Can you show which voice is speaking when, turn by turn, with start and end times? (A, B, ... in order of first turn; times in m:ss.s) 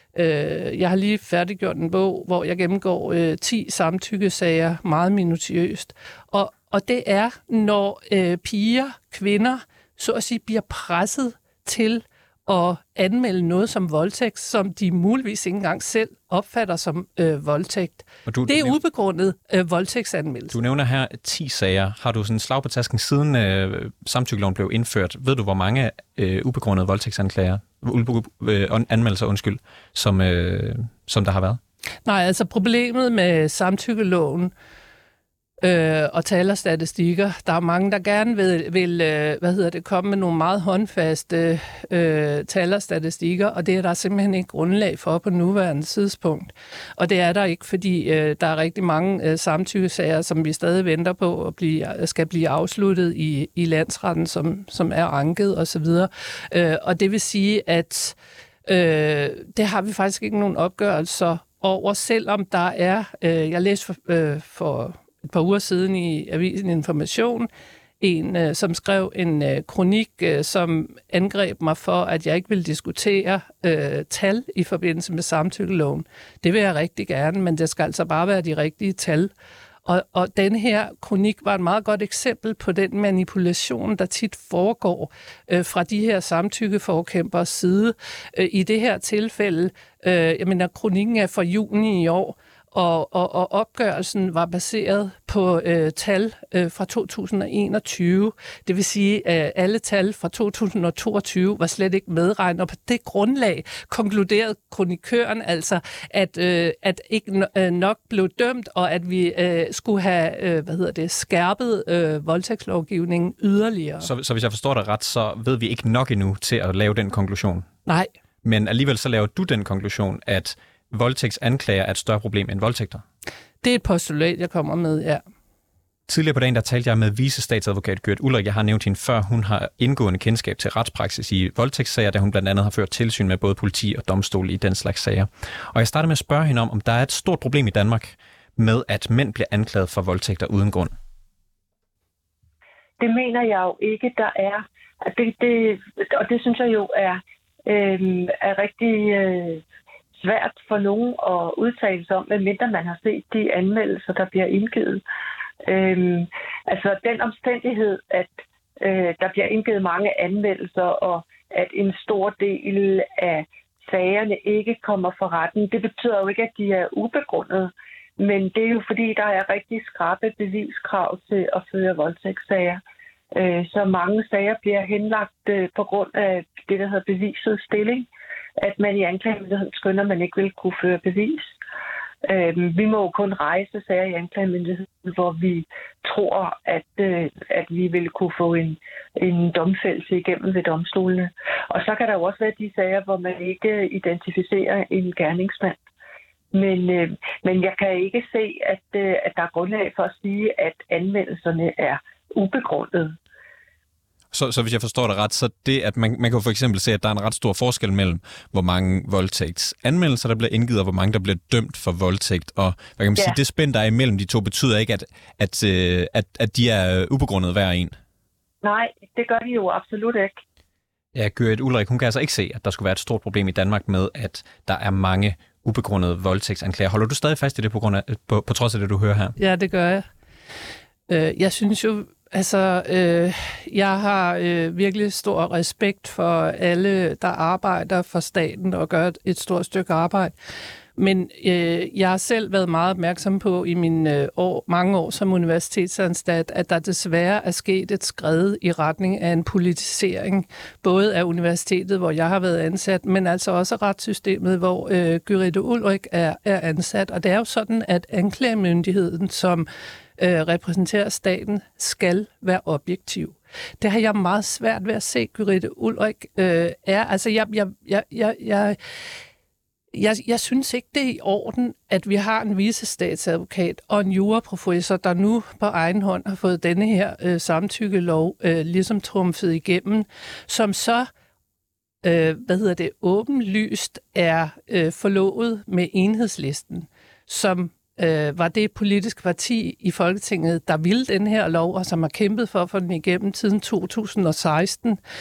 0:00.1-0:20.6 A
0:18.2-0:18.8 B
0:20.5-0:31.6 B
0:32.0-0:34.5 A
0:35.6-1:07.5 A
1:08.0-1:19.3 A
1:19.8-1:54.1 A
1:54.0-1:57.7 B
1:57.8-1:58.1 A
1:58.4-2:03.0 B
2:03.6-2:05.2 A
2:06.1-2:20.9 B
2:23.0-2:29.6 C
2:30.1-2:35.0 C
2:35.6-2:52.8 C
2:53.3-2:58.1 C
2:58.6-3:01.5 C
3:02.2-3:15.8 C
3:16.5-3:23.2 C
3:24.3-3:38.0 B
3:38.6-3:40.4 C
3:41.1-3:49.4 B
3:49.4-3:50.0 A
3:51.1-4:00.3 A
4:01.0-4:19.7 A
4:20.2-4:28.8 A
4:29.9-4:41.1 A
4:42.0-4:55.0 A